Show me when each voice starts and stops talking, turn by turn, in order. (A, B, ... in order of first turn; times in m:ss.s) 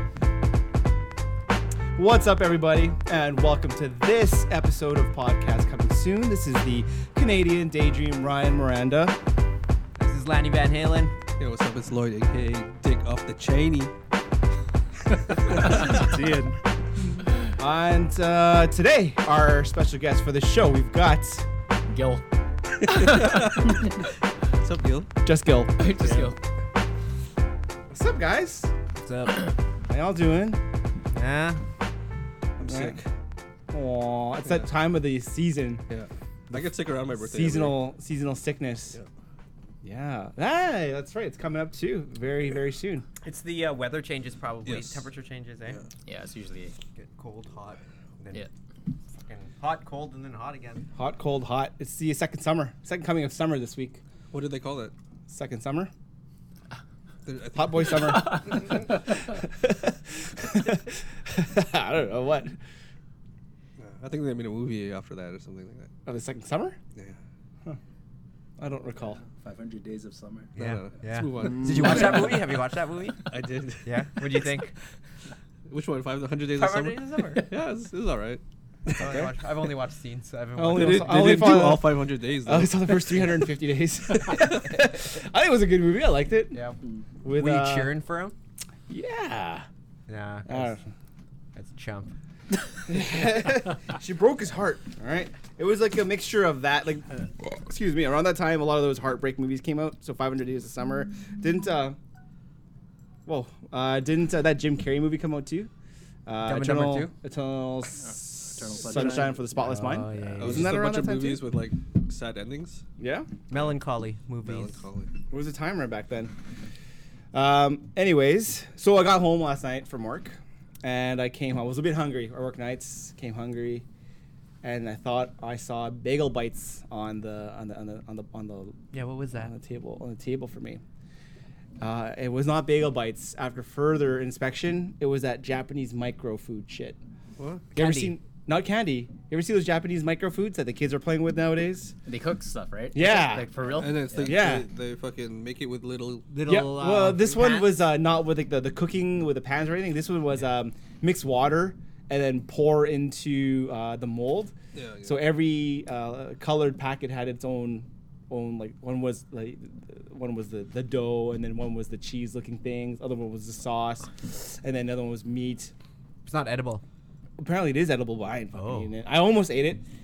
0:02.0-0:09.2 A
0:10.0-0:11.2 B
0:11.4-0:13.9 C
0:15.5-0:16.0 C
0:15.6-0:16.6 D
0:17.5-0:21.4 A
0:21.9-0:22.2 E
0:22.8-0:24.0 C
0:22.8-0:23.6 E
0:24.6-0:25.1 C
0:25.2-0:25.8 A
0:25.8-0:26.4 E
0:26.0-0:26.3 D
0:27.9-0:28.7 A
0:29.0-0:29.5 B
0:29.9-0:30.6 A
0:31.1-0:31.6 B
0:32.6-0:33.0 A
0:32.6-0:33.0 C
0:33.7-0:35.8 A
0:35.9-0:37.9 C
0:36.5-0:39.0 A
0:39.8-0:43.1 A
0:43.2-0:45.8 B
0:44.6-0:45.1 C
0:46.1-0:46.7 E
0:47.0-0:48.5 B
0:49.2-0:50.9 B
0:51.0-0:54.0 A
0:54.3-0:54.9 C
0:55.3-0:55.9 A
0:57.3-0:58.8 C
0:57.5-1:02.6 A
1:03.8-1:05.9 C
1:06.1-1:06.8 A
1:08.6-1:09.2 A
1:09.2-1:10.6 D
1:10.6-1:13.3 B
1:10.6-1:12.5 C
1:11.4-1:12.2 D
1:13.3-1:14.5 C
1:13.8-1:14.7 B
1:15.7-1:19.1 C
1:16.5-1:17.5 B
1:19.0-1:21.3 B
1:19.0-1:19.3 A
1:20.6-1:26.6 A
1:20.7-1:23.4 C
1:24.1-1:24.5 C
1:27.2-1:28.0 A
1:27.3-1:28.3 B
1:28.9-1:29.7 A
1:30.1-1:30.7 B
1:30.5-1:30.9 A
1:31.6-1:32.1 B
1:32.9-1:42.0 A
1:43.3-1:45.7 A
1:46.3-1:51.4 A
1:46.4-1:47.1 B
1:48.6-1:49.5 D
1:49.6-1:50.8 B
1:50.4-1:52.8 C
1:53.0-1:53.3 A
1:53.5-1:54.8 B
1:54.4-1:55.1 C
1:55.3-1:56.3 A
1:57.3-2:03.8 A
2:04.6-2:10.8 A
2:08.9-2:09.5 B
2:11.8-2:17.0 A
2:17.4-2:17.6 C
2:17.7-2:22.0 A
2:17.8-2:18.2 B
2:22.1-2:24.4 E
2:22.9-2:23.7 A
2:23.8-2:26.3 C
2:24.2-2:24.6 A
2:26.3-2:27.8 B
2:26.4-2:34.5 A
2:34.7-2:35.3 C
2:35.0-2:45.7 A
2:46.2-2:46.8 B
2:47.4-2:49.8 A
2:48.5-2:48.9 B